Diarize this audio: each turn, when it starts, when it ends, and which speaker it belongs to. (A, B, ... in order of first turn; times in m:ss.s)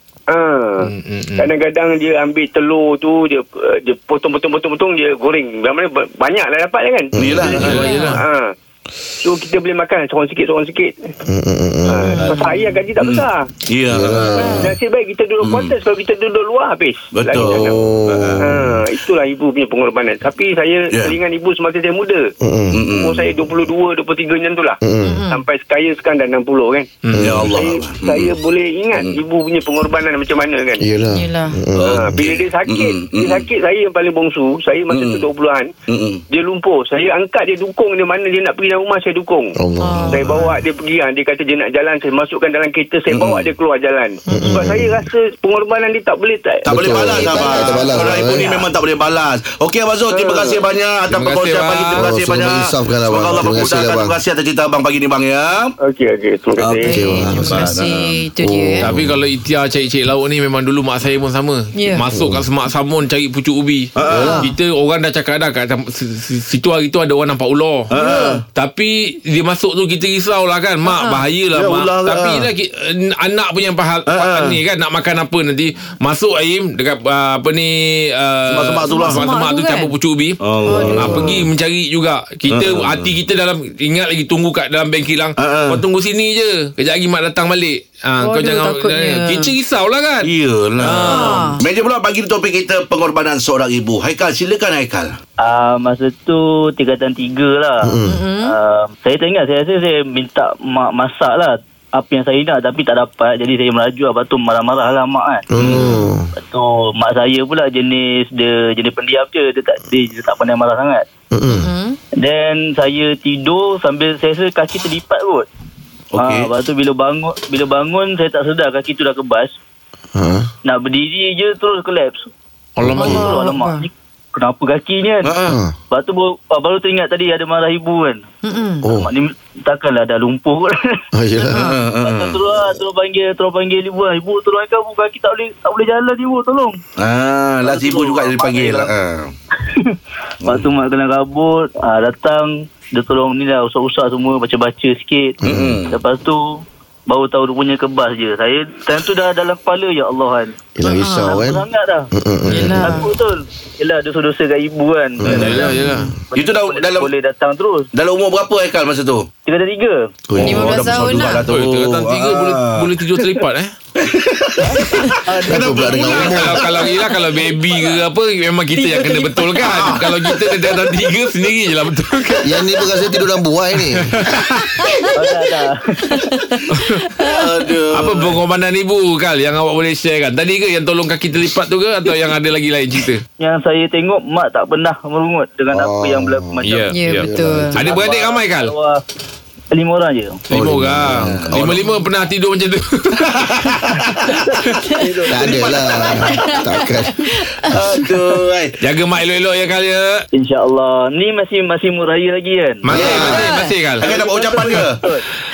0:00.3-0:08.5 A
0:00.8-0:01.5 B
0:07.1-0:07.6 C
0:07.2-0:07.8 D
0:07.6-0:08.2 B
0:07.8-0:08.2 E
0:09.2-0:11.1 A
0:11.3-0:12.3 C
0:11.8-0:13.5 A
0:12.1-0:12.7 E
0:13.0-0:14.4 D
0:13.9-0:14.7 C
0:14.3-0:14.7 E
0:14.3-0:17.8 A
0:15.4-0:15.7 D
0:17.1-0:18.6 D
0:17.3-0:18.5 C
0:18.4-0:22.3 A
0:22.4-0:22.8 C
0:22.7-0:23.3 D
0:22.8-0:24.8 A
0:24.8-0:25.2 C
0:25.0-0:25.4 E
0:25.3-0:26.9 A
0:27.0-0:27.4 B
0:27.1-0:27.5 C
0:27.2-0:28.4 D
0:27.5-0:30.8 A
0:30.8-0:32.2 C
0:31.1-0:31.6 E
0:31.8-0:33.5 D
0:31.8-0:35.7 A
0:34.9-0:35.2 D
0:35.9-0:36.2 D
0:36.3-0:39.5 A
0:39.6-0:40.3 C
0:39.8-0:40.4 E
0:40.1-0:47.7 A
0:43.1-0:43.5 D
0:44.2-0:44.7 E
0:44.3-0:45.0 C
0:46.6-0:55.7 D
0:46.7-0:48.5 C
0:47.3-0:48.7 E
0:50.1-0:50.6 A
0:51.1-0:52.1 B
0:51.9-0:54.1 C
0:55.8-0:57.1 A
0:56.6-0:58.2 D
0:56.8-0:57.8 C
0:56.8-0:58.9 E
0:58.4-0:59.2 C
0:58.8-1:07.9 B
1:01.7-1:02.0 E
1:02.1-1:02.5 C
1:04.0-1:04.4 D
1:04.0-1:04.4 C
1:04.1-1:04.5 E
1:07.9-1:08.4 E
1:07.9-1:08.4 D
1:08.5-1:31.5 B
1:10.8-1:11.2 E
1:11.5-1:12.5 D
1:14.1-1:14.6 D
1:18.5-1:19.2 D
1:18.9-1:19.9 E
1:20.4-1:21.4 D
1:20.7-1:21.4 E
1:22.5-1:23.1 D
1:25.4-1:25.8 D
1:28.2-1:29.5 E
1:30.2-1:35.2 D
1:31.0-1:31.6 E
1:35.4-1:45.5 F
1:37.8-1:38.2 C
1:38.0-1:38.6 E
1:45.5-1:46.3 C
1:45.6-1:46.0 D
1:46.3-1:51.1 F
1:51.3-1:51.7 C
1:51.5-1:52.0 E
1:52.2-1:55.5 F
1:56.1-1:56.5 D
1:56.2-1:59.5 F
2:00.1-2:00.5 C
2:00.6-2:02.3 F
2:02.8-2:03.3 B
2:02.8-2:03.2 C
2:02.9-2:05.4 F
2:03.0-2:03.9 E
2:05.2-2:05.6 D
2:05.4-2:05.7 C
2:05.9-2:08.2 F
2:08.4-2:08.9 E
2:08.8-2:09.1 C
2:08.8-2:11.0 F
2:11.1-2:11.8 C
2:11.5-2:11.8 E
2:11.5-2:12.4 D
2:12.0-2:16.8 F
2:17.0-2:19.3 D
2:17.6-2:18.9 F
2:19.7-2:30.6 F
2:25.4-2:25.8 C
2:25.4-2:25.9 D
2:30.8-2:33.0 C
2:30.8-2:31.4 E
2:31.2-2:32.1 F
2:32.5-2:32.8 B
2:32.5-2:33.1 E
2:32.8-2:37.9 F
2:35.2-2:36.0 C
2:35.3-2:36.1 B
2:36.3-2:37.1 D
2:37.9-2:39.3 D
2:39.4-2:40.1 F
2:40.3-2:41.2 C
2:40.3-2:42.9 D
2:40.4-2:41.4 E
2:41.5-2:43.7 B
2:44.0-2:46.9 D
2:44.7-2:46.2 F
2:45.4-2:46.6 C
2:46.0-2:52.8 B
2:48.7-2:49.6 E
2:49.6-2:50.4 D
2:52.4-2:54.2 C
2:53.9-2:54.7 B
2:54.8-2:55.1 E
2:55.1-2:56.2 F
2:56.0-2:57.4 E
2:56.7-2:57.1 B
2:57.2-2:58.4 D
2:57.9-3:03.2 B
3:03.4-3:06.9 F
3:05.7-3:07.8 C
3:06.6-3:08.7 B
3:06.9-3:07.8 E
3:07.7-3:09.0 F
3:09.7-3:10.4 F
3:10.5-3:13.7 B
3:10.5-3:11.6 C
3:11.2-3:11.9 D
3:13.2-3:16.6 D
3:14.9-3:15.4 F
3:15.2-3:17.3 C
3:16.2-3:16.6 E
3:17.2-3:17.7 E
3:17.6-3:18.8 D
3:18.8-3:20.2 B
3:20.3-3:23.3 F
3:22.8-3:24.0 B
3:22.9-3:23.4 C
3:22.9-3:23.3 D
3:23.1-3:23.7 E
3:24.0-3:25.0 D
3:24.0-3:25.2 F